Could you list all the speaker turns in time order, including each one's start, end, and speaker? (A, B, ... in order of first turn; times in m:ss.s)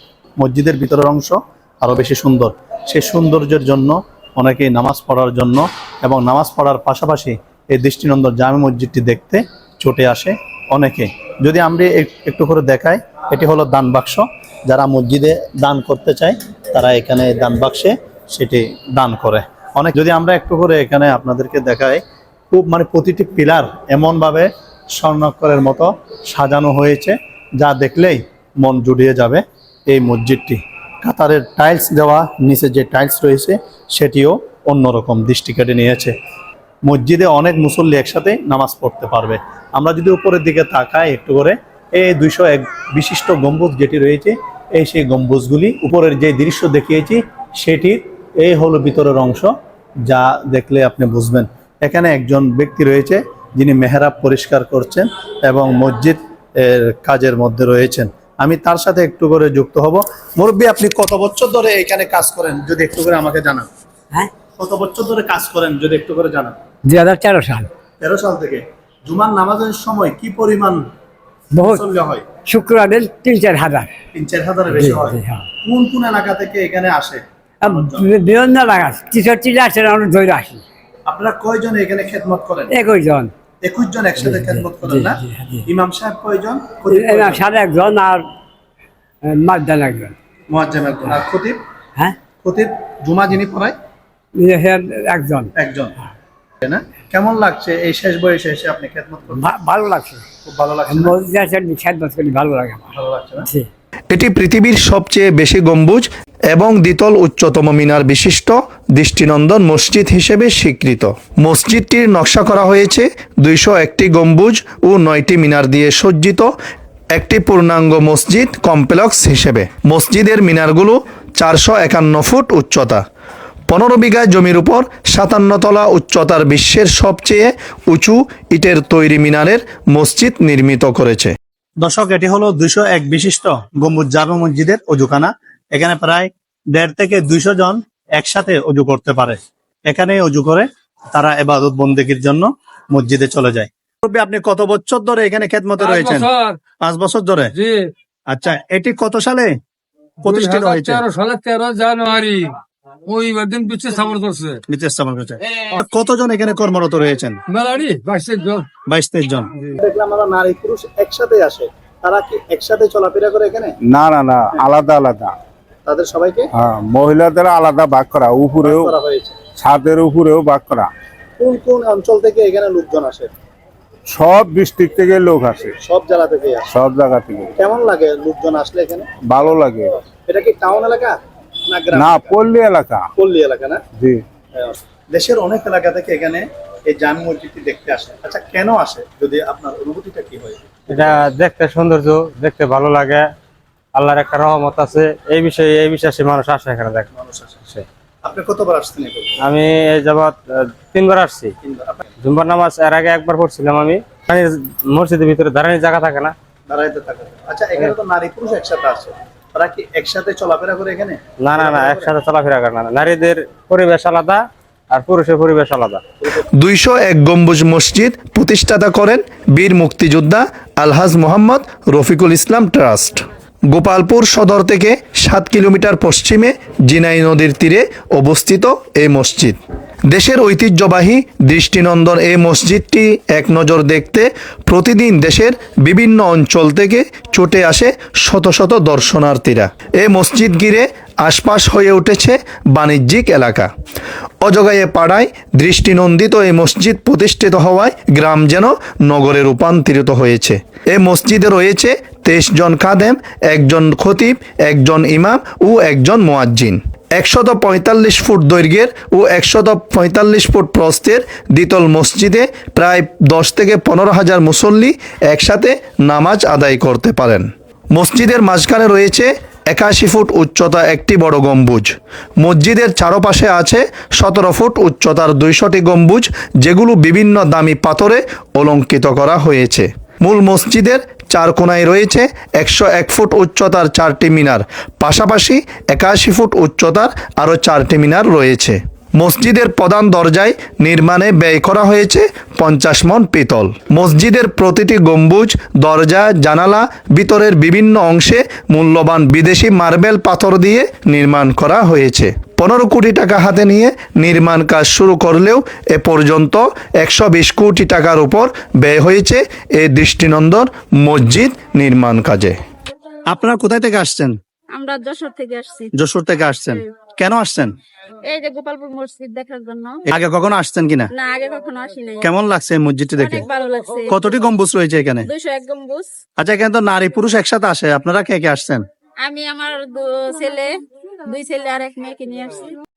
0:00.4-0:36.1 A
0:36.8-0:49.5 A
0:50.1-1:03.7 A
1:04.6-1:06.6 A
1:06.9-1:07.7 B
1:08.0-1:10.9 A
1:11.5-1:11.8 B
1:11.6-1:12.3 A
1:12.5-1:13.9 B
1:14.1-1:18.0 A
1:14.7-1:15.4 B
1:17.6-1:20.6 B
1:21.1-1:22.7 A
1:22.7-1:23.3 B
1:23.6-1:27.4 A
1:24.2-1:25.7 B
1:26.9-1:28.2 B
1:29.2-1:30.2 B
1:30.5-1:31.6 A
1:32.4-1:33.8 A
1:34.4-1:35.5 B
1:35.6-1:35.9 A
1:36.6-1:39.4 A
1:39.3-1:40.2 B
1:40.4-1:41.1 A
1:40.9-1:43.7 B
1:42.9-1:43.5 A
1:44.1-1:56.5 C
1:57.2-2:03.0 C
2:03.7-2:11.4 C
2:11.8-2:26.3 A
2:25.8-2:26.6 D
2:26.8-2:27.6 A
2:27.6-2:27.9 D
2:28.3-2:29.5 A
2:30.2-2:31.1 A
2:30.2-2:34.6 D
2:34.7-2:37.4 A
2:37.5-2:38.7 D
2:38.9-2:43.7 A
2:43.8-2:45.4 E
2:45.9-2:46.5 A
2:46.5-2:49.0 E
2:48.6-2:49.4 A
2:49.6-2:50.9 E
2:51.4-2:53.3 A
2:54.1-2:55.7 E
2:55.8-2:56.7 A
2:56.7-2:57.5 E
2:57.6-2:59.1 A
2:59.2-3:00.0 E
3:00.3-3:01.2 A
3:01.7-3:02.4 A
3:01.9-3:03.1 E
3:03.2-3:03.8 A
3:04.0-3:04.2 E
3:04.6-3:11.2 A
3:10.9-3:13.2 F
3:14.0-3:17.1 F
3:17.1-3:17.6 A
3:18.2-3:19.4 A
3:19.4-3:21.5 F
3:21.6-3:22.0 A
3:22.2-3:26.3 F
3:26.7-3:32.1 A
3:31.4-3:36.0 F
3:36.6-3:49.6 C
3:50.1-4:03.7 C
4:04.4-5:12.6 C
5:13.3-5:14.4 A
5:14.8-5:15.9 G
5:16.0-5:17.7 A
5:18.2-5:20.0 G
5:20.1-5:21.1 A
5:21.1-5:22.3 G
5:22.2-5:23.5 A
5:23.2-5:24.3 G
5:24.1-5:25.3 A
5:25.2-5:26.1 G
5:26.4-5:28.8 A
5:29.2-5:30.7 G
5:31.3-5:32.8 G